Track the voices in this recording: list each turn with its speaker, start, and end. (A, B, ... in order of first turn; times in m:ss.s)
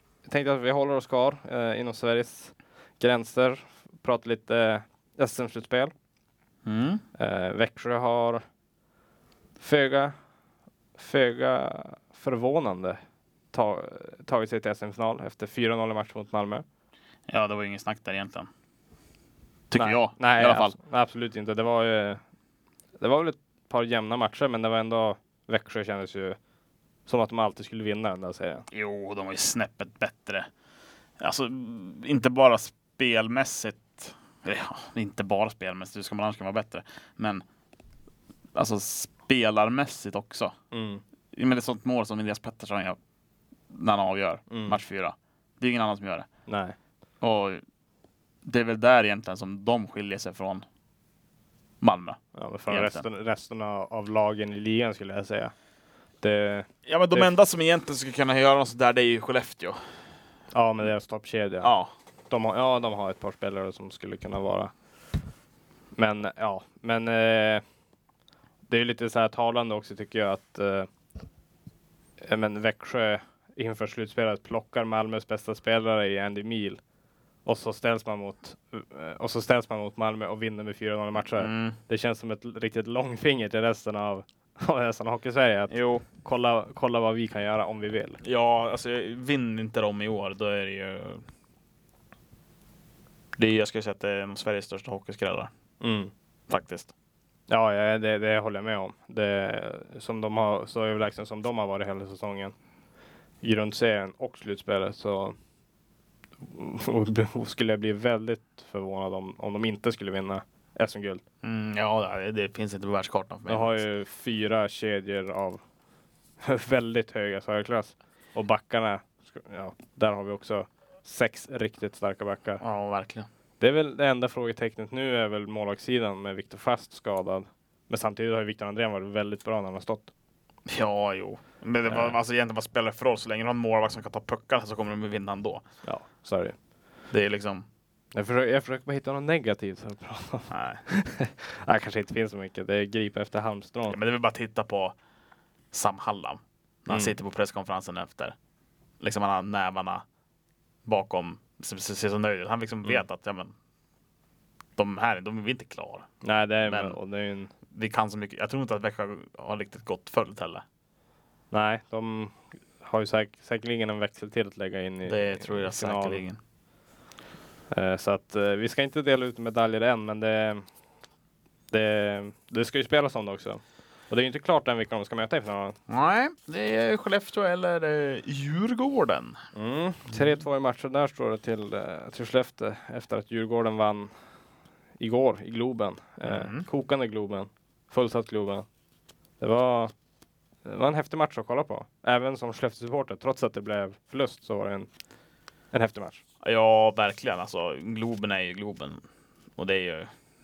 0:00.2-0:05.9 A
0:06.6-0:07.0 B
0:07.2-0:08.4 A
0:09.6-0:10.2 A
0:11.0-0:13.0 A
0:13.5-0:16.6 A
0:17.3-0:18.5 B
0:19.7-0:20.8 B
0:19.8-0:22.2 A
0:23.0-0:26.4 A
0:27.1-0:28.7 A
0:28.7-0:30.5 B
0:31.2-0:37.4 B
0:38.6-0:40.5 B
0:40.7-0:41.0 A
0:41.3-0:43.0 B
0:43.7-0:46.3 B
0:44.5-0:44.8 A
0:46.5-0:46.8 A
0:47.2-0:47.6 B
0:48.4-0:50.6 B
0:51.8-0:53.0 B
0:52.4-0:55.5 A
0:56.2-0:57.3 A
0:56.9-0:59.8 B
1:00.5-1:01.7 A
1:01.6-1:01.9 B
1:02.3-1:04.7 A
1:06.0-1:07.6 A
1:08.7-1:10.9 A
1:12.2-1:16.8 A
1:17.4-1:28.2 A
1:21.4-1:21.8 B
1:25.7-1:26.0 B
1:28.2-1:31.2 B
1:33.4-1:35.5 B
1:35.8-1:36.1 A
1:36.5-1:36.9 B
1:37.5-1:42.5 A
1:43.4-1:45.4 A
1:46.4-1:51.2 A
1:51.4-1:53.8 B
1:53.5-1:55.6 A
1:56.4-2:02.6 A
2:02.6-2:03.3 B
2:03.6-2:10.1 A
2:10.7-2:15.6 B
2:11.9-2:12.2 A
2:15.8-2:16.6 A
2:17.1-2:17.7 B
2:18.1-2:24.0 A
2:20.5-2:20.8 B
2:23.9-2:25.0 B
2:25.7-2:28.4 B
2:29.0-2:30.0 B
2:30.9-2:33.5 B
2:34.8-2:36.1 B
2:36.2-2:37.5 A
2:36.6-2:37.0 B
2:37.7-2:40.6 B
2:41.5-2:46.2 A
2:45.1-2:46.4 B
2:47.7-2:50.6 A
2:51.7-2:55.8 A
2:55.9-2:59.4 B
2:59.6-3:04.1 A
3:05.0-3:08.7 A
3:06.2-3:06.7 B
3:09.4-3:09.9 A
3:10.6-3:14.9 A
3:15.7-3:16.2 A
3:16.4-3:19.0 B
3:19.6-3:20.1 B